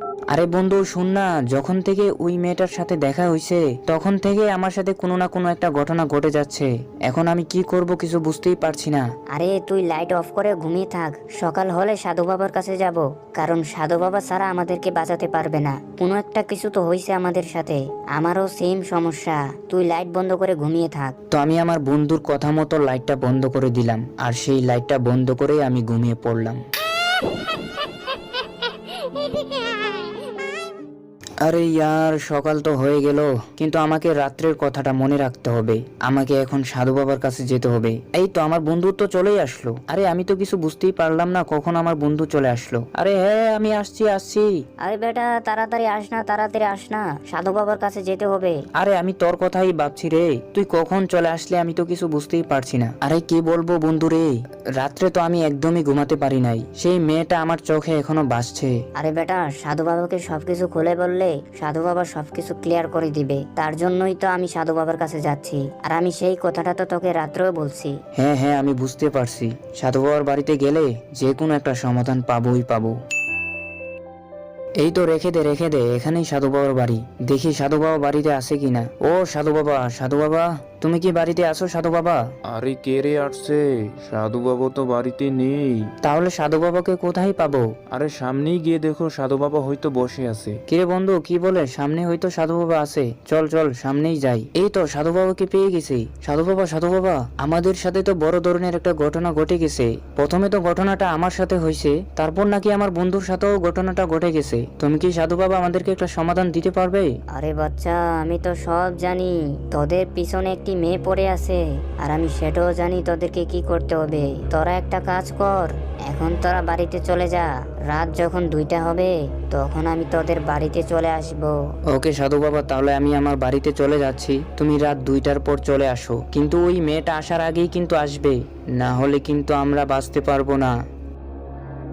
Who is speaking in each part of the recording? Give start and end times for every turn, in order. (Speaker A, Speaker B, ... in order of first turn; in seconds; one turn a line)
Speaker A: 0.3-9.1
Speaker B: 9.3-21.1
Speaker A: 21.3-26.6
Speaker A: 31.4-44.5
Speaker B: 44.9-48.6
Speaker A: 48.8-58.8
Speaker B: 59.0-68.0
Speaker A: 68.2-73.0
Speaker A: 74.8-82.2
Speaker C: 82.5-85.9
Speaker A: 86.0-87.8
Speaker C: 87.9-90.6
Speaker A: 90.7-107.1
Speaker B: 107.3-121.5
Speaker A: 121.9-130.7